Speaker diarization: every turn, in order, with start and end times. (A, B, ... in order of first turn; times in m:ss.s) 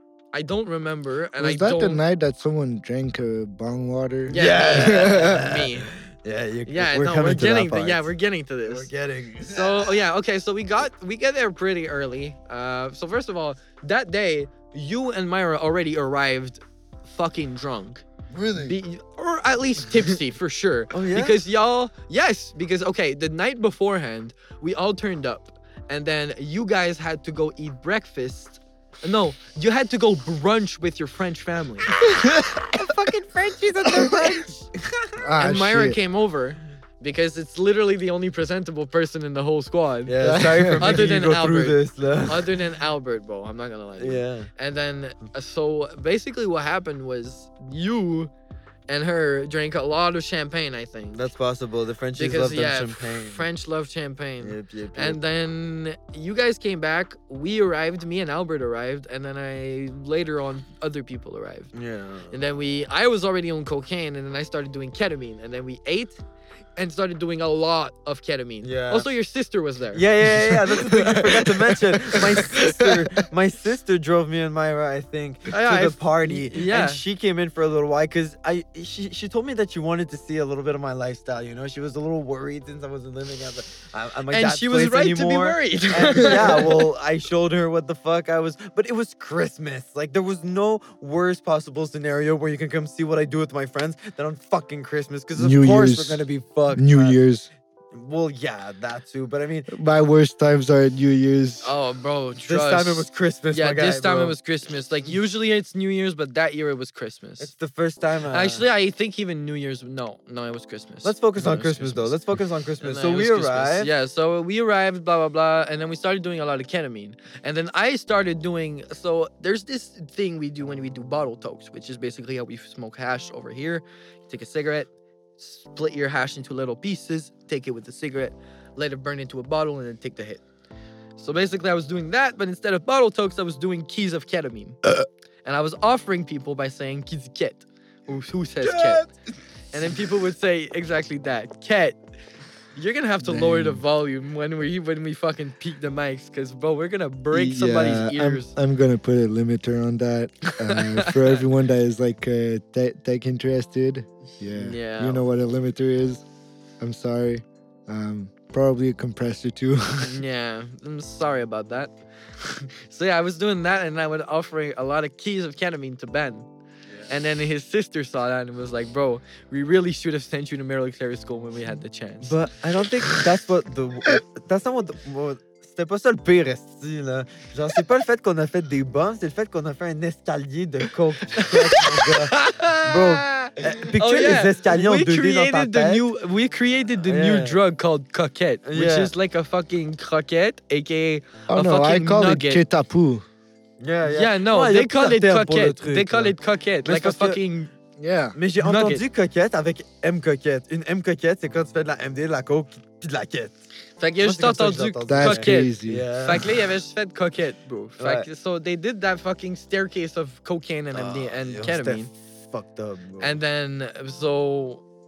0:00.3-0:02.0 A
0:01.4-0:05.4 B
0:04.3-0:05.9 A
0:04.3-0:08.1 C
0:06.6-0:08.9 A
0:08.6-0:10.0 C
0:09.4-0:18.0 A
0:18.3-0:18.7 C
0:18.6-0:31.9 A
0:20.9-0:21.4 C
0:32.0-0:32.8 B
0:32.7-0:34.7 A
0:33.8-0:34.4 C
0:35.2-0:36.0 B
0:35.4-0:40.1 A
0:40.1-0:42.5 C
0:40.2-0:41.0 B
0:40.8-0:48.3 A
0:44.0-0:44.5 C
0:48.9-0:51.2 A
0:51.1-0:53.4 C
0:52.2-1:01.7 A
0:54.4-0:55.2 C
1:01.7-1:02.4 C
1:02.3-1:06.2 A
1:06.8-1:10.0 A
1:08.6-1:09.1 C
1:09.9-1:37.2 C
1:10.4-1:13.0 B
1:15.5-1:17.0 A
1:24.3-1:26.8 A
1:26.2-1:26.6 B
1:35.4-1:37.5 B
1:37.9-1:39.7 C
1:39.7-1:41.7 B
1:41.6-1:47.5 A
1:42.4-1:44.4 C
1:47.4-1:48.6 C
1:48.3-1:52.2 A
1:51.0-1:53.9 C
1:52.8-2:10.4 A
2:11.2-2:14.8 A
2:15.4-2:19.0 A
2:18.6-2:19.1 C
2:19.7-2:22.0 A
2:22.7-2:28.5 A
2:23.2-2:23.8 B
2:27.3-2:36.2 B
2:30.5-2:31.4 A
2:34.6-2:35.2 A
2:36.8-2:40.2 B
2:40.0-2:41.9 A
2:42.4-2:46.5 A
2:47.1-2:52.4 A
2:52.2-3:06.0 C
3:01.3-3:12.6 A
3:07.0-3:07.6 C
3:08.6-3:09.1 C
3:11.5-3:13.2 B
3:13.8-3:17.4 C
3:14.1-3:17.7 A
3:18.0-3:18.4 B
3:18.4-3:23.6 C
3:18.6-3:19.0 A
3:24.0-3:32.1 A
3:24.2-3:26.6 C
3:25.1-3:26.1 B
3:28.0-3:28.3 C
3:30.9-3:33.4 C
3:33.2-3:34.8 A